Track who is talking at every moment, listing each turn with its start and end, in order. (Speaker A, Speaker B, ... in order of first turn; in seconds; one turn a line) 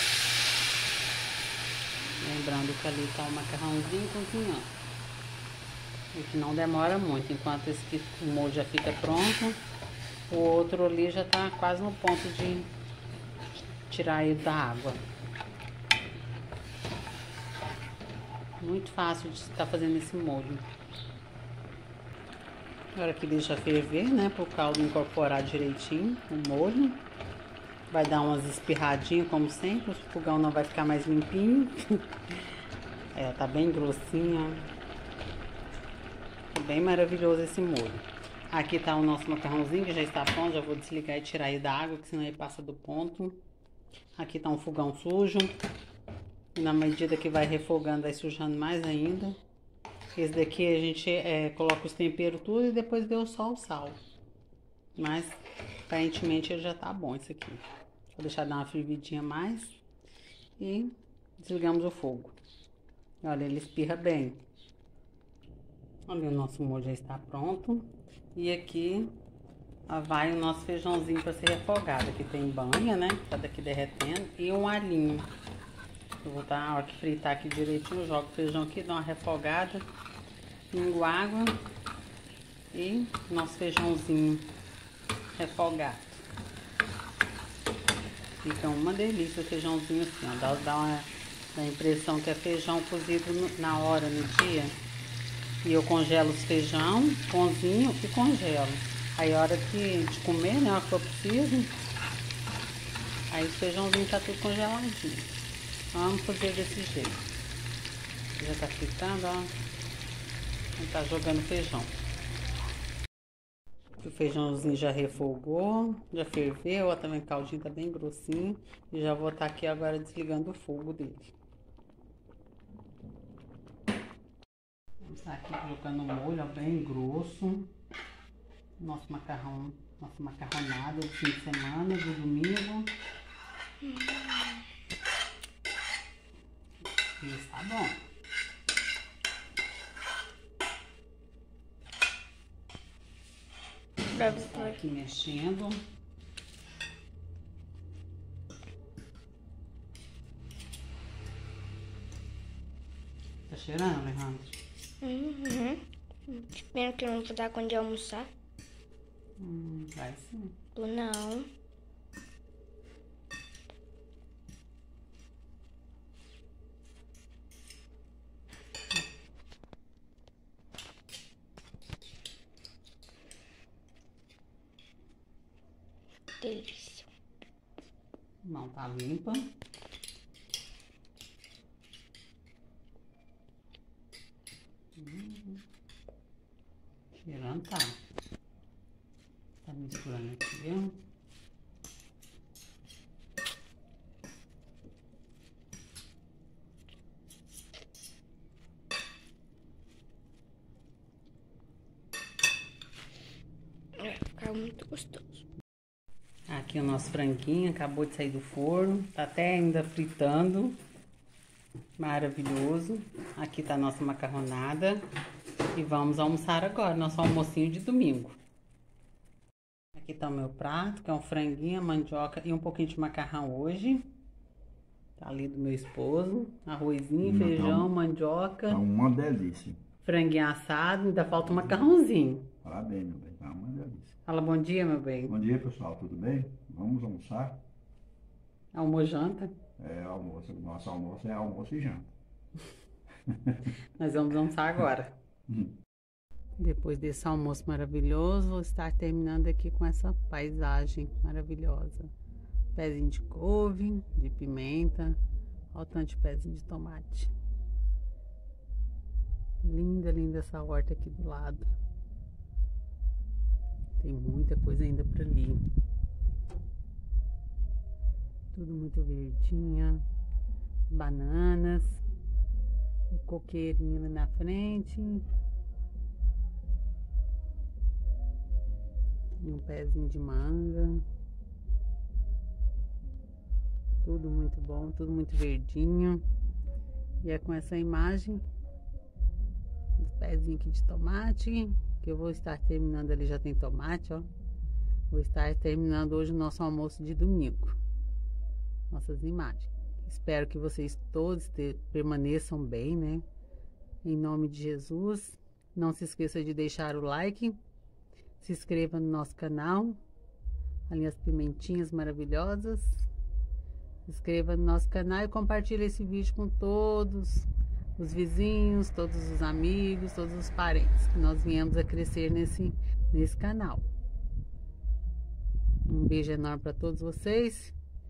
Speaker A: 2.2-4.7
Speaker A: 6.1-9.6
Speaker A: 10.3-12.7
Speaker A: 13.9-15.0
Speaker A: 18.6-20.7
Speaker A: 22.9-27.0
Speaker A: 27.9-32.5
Speaker A: 33.1-34.7
Speaker A: 36.5-43.4
Speaker A: 44.2-45.5
Speaker A: 46.5-49.4
Speaker A: 50.1-54.0
Speaker A: 55.0-59.8
Speaker A: 60.6-62.4
Speaker A: 63.2-64.4
Speaker A: 66.1-69.1
Speaker A: 69.9-75.3
Speaker A: 76.2-79.9
Speaker A: 80.7-81.6
Speaker A: 82.7-84.5
Speaker A: 85.3-86.2
Speaker A: 88.4-94.8
Speaker A: 95.6-101.7
Speaker A: 103.3-105.3
Speaker A: 105.9-107.2
Speaker A: 108.4-109.5
Speaker A: 110.8-112.0
Speaker A: 114.0-121.3
Speaker A: 125.0-127.7
Speaker A: 128.8-132.9
Speaker B: 133.8-134.6
Speaker A: 137.2-138.0
Speaker B: 144.2-144.8
Speaker A: 144.2-145.8
Speaker A: 153.5-154.6
Speaker B: 155.0-158.3
Speaker A: 159.4-160.6
Speaker B: 160.8-161.5
Speaker B: 176.4-177.1
Speaker A: 178.4-179.5
Speaker A: 185.0-185.6
Speaker A: 187.2-188.0
Speaker A: 189.6-191.0
Speaker B: 204.0-205.4
Speaker A: 206.5-210.8
Speaker A: 212.0-215.1
Speaker A: 215.8-218.4
Speaker A: 220.0-224.0
Speaker A: 225.2-228.8
Speaker C: 227.2-227.9
Speaker C: 228.7-229.8
Speaker A: 230.0-232.5
Speaker C: 232.6-234.2
Speaker A: 234.3-235.3
Speaker C: 235.3-237.6
Speaker A: 238.7-239.6
Speaker C: 239.8-242.1
Speaker A: 244.0-245.2
Speaker A: 246.6-252.1
Speaker A: 252.8-255.2
Speaker A: 255.7-257.3
Speaker A: 259.6-261.7
Speaker A: 264.0-265.7
Speaker A: 268.5-270.0
Speaker A: 270.9-272.0
Speaker A: 273.1-275.3
Speaker A: 279.4-281.0
Speaker A: 284.0-286.2
Speaker A: 287.2-288.4
Speaker A: 290.0-294.3
Speaker A: 295.1-297.8
Speaker A: 298.9-303.2
Speaker A: 304.0-307.6
Speaker A: 308.4-310.0
Speaker A: 310.9-313.1
Speaker A: 314.1-323.9
Speaker A: 325.9-327.8